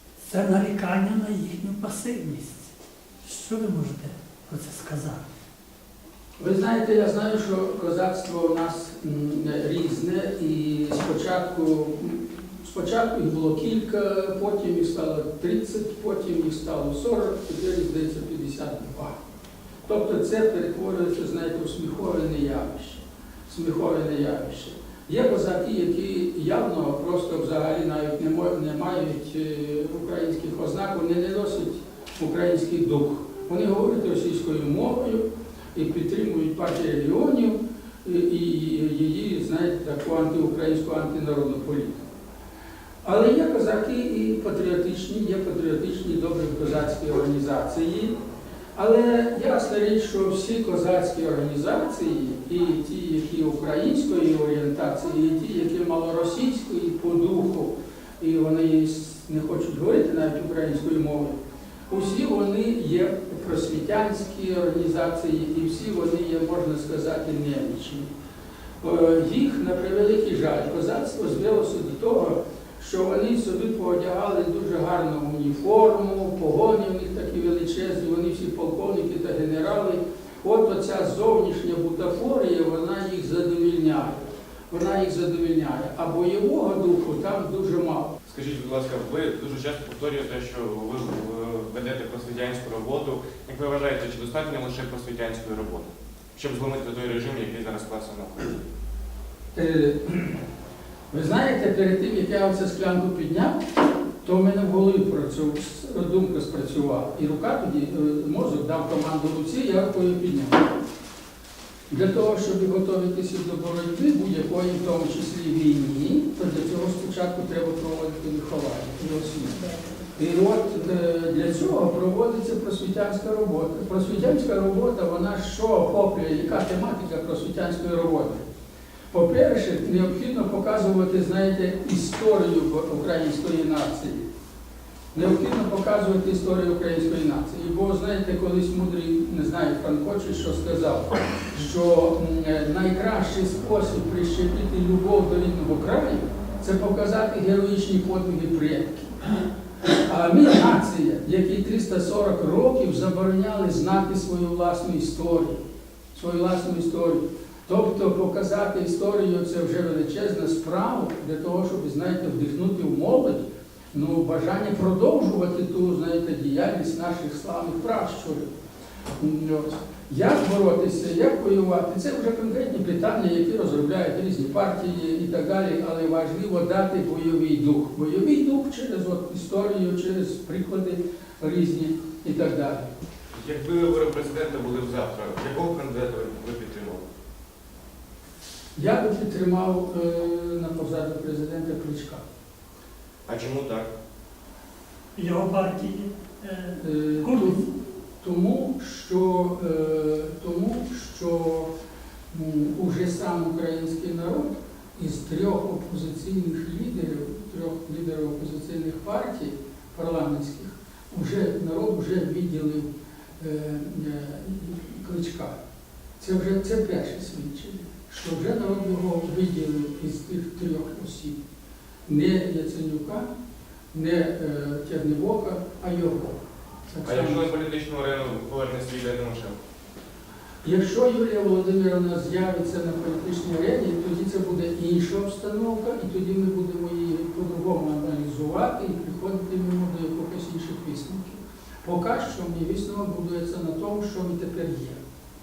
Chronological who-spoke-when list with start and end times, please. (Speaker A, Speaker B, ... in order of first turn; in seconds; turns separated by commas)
Speaker A: 0.2-2.7, Speaker A: 3.2-5.2, Speaker B: 6.4-19.1, Speaker B: 19.8-42.0, Speaker B: 43.0-48.1, Speaker B: 48.7-61.4, Speaker B: 61.9-68.1, Speaker B: 68.8-88.1, Speaker C: 88.3-98.6, Speaker B: 99.5-100.4, Speaker B: 101.1-103.6, Speaker B: 104.2-110.7, Speaker B: 111.9-119.6, Speaker B: 120.1-128.4, Speaker B: 129.1-134.2, Speaker B: 135.1-149.2, Speaker B: 149.9-155.6, Speaker B: 156.1-168.5, Speaker B: 169.2-182.9, Speaker C: 183.3-187.1, Speaker B: 188.8-192.2, Speaker C: 193.3-193.9, Speaker A: 195.2-197.6, Speaker B: 196.8-201.7, Speaker B: 202.3-215.6, Speaker B: 216.2-221.4, Speaker B: 222.1-223.3, Speaker B: 223.9-227.5, Speaker C: 227.0-229.6, Speaker B: 230.6-245.0